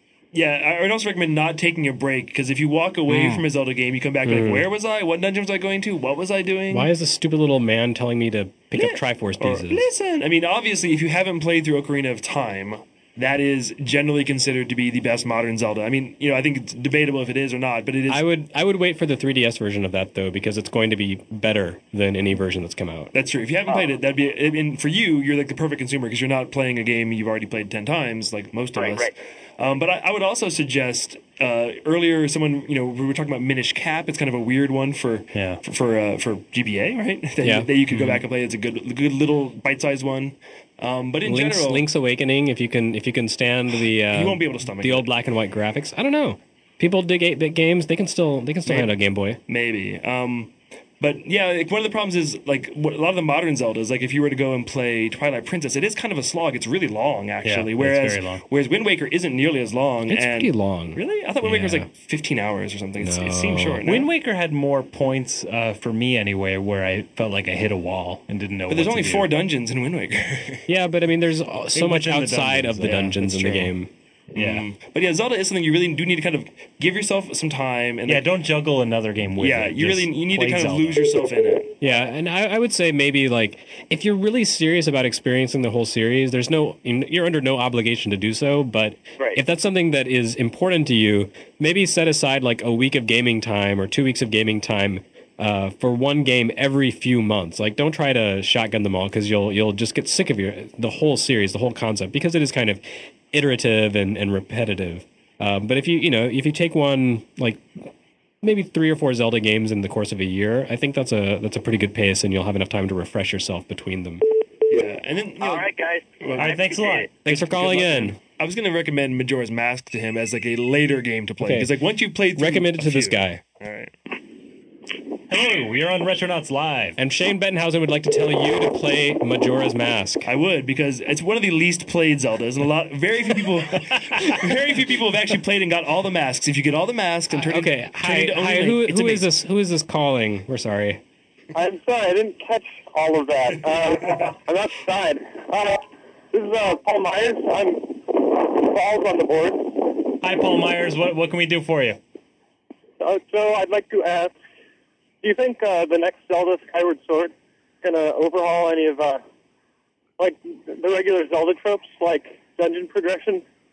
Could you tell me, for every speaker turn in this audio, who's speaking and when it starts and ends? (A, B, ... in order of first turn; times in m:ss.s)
0:00.3-0:06.9 A
0:03.1-0:03.4 B
0:04.2-0:04.7 C
0:06.7-0:09.8 C
0:08.7-0:18.3 A
0:18.1-0:23.1 C
0:23.1-0:41.8 A
0:28.8-0:29.1 D
0:35.3-0:35.6 B
0:37.4-0:37.7 C
0:41.2-0:49.4 C
0:43.7-0:45.1 A
0:48.7-0:48.9 A
0:49.5-1:04.1 A
0:57.4-0:58.4 B
1:00.1-1:01.9 C
1:03.0-1:03.8 C
1:03.8-1:09.3 B
1:08.7-1:10.7 A
1:10.7-1:13.9 C
1:11.7-1:13.7 B
1:14.3-1:18.3 A
1:14.4-1:14.7 B
1:18.1-1:21.0 B
1:19.4-1:21.7 A
1:21.8-1:47.6 C
1:48.4-1:54.2 C
1:54.7-1:55.7 A
1:55.4-1:57.1 D
1:56.2-1:56.6 A
1:56.4-1:57.1 B
1:57.2-1:58.2 C
1:57.2-2:03.9 A
2:01.4-2:01.7 C
2:02.3-2:03.4 C
2:05.3-2:07.0 B
2:07.0-2:10.3 C
2:10.2-2:19.3 A
2:17.4-2:21.0 C
2:21.6-2:25.7 E
2:26.3-2:27.8 E
2:28.5-2:29.6 E
2:30.1-2:32.0 B
2:33.0-2:34.3 E
2:35.2-2:37.3 E
2:37.8-2:39.2 E
2:40.2-2:43.4 E